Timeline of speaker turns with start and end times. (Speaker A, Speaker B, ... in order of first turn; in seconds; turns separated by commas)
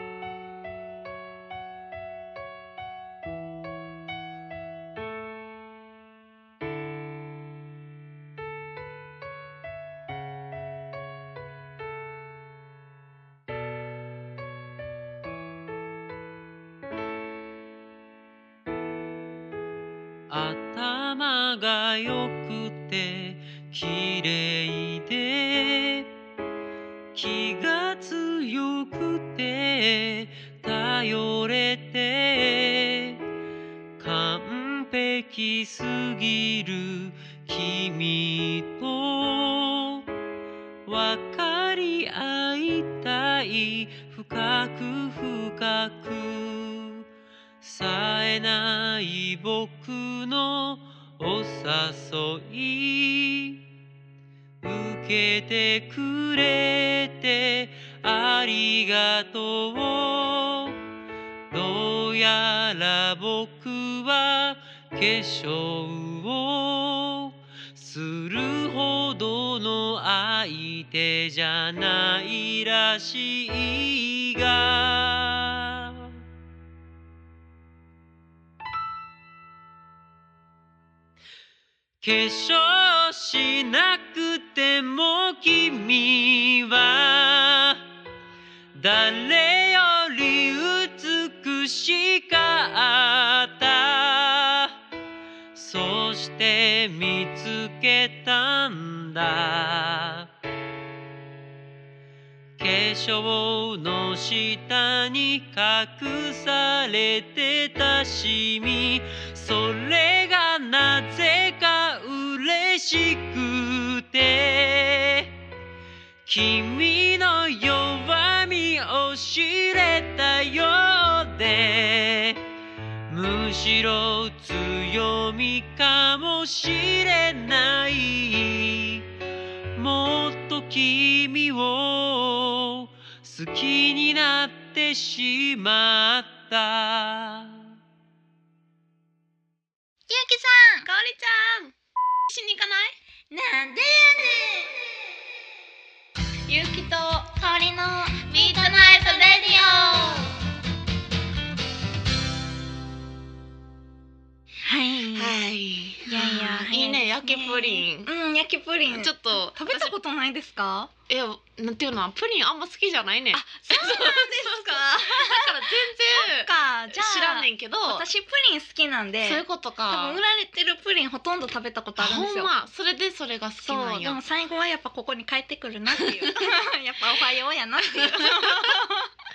Speaker A: 20.3-26.1, Speaker A: 27.1-33.2, Speaker A: 34.0-40.0, Speaker A: 40.9-47.0, Speaker A: 47.6-53.6, Speaker A: 54.6-60.8, Speaker A: 61.5-76.1, Speaker A: 82.0-87.8, Speaker A: 88.7-94.7, Speaker A: 95.5-100.3, Speaker A: 102.6-115.3, Speaker A: 116.2-122.4, Speaker A: 123.1-129.1, Speaker A: 129.8-137.7, Speaker B: 140.1-140.9, Speaker C: 140.8-141.7, Speaker C: 142.3-143.0, Speaker B: 143.3-144.8, Speaker C: 146.5-147.2, Speaker B: 147.1-150.3, Speaker C: 148.3-150.3, Speaker B: 154.6-155.3, Speaker C: 155.1-158.1, Speaker B: 156.1-160.9, Speaker C: 158.9-159.9, Speaker C: 161.1-168.0, Speaker B: 163.3-165.6, Speaker B: 166.1-172.5, Speaker C: 169.2-170.2, Speaker C: 172.0-174.2, Speaker B: 173.6-179.1, Speaker C: 177.8-178.8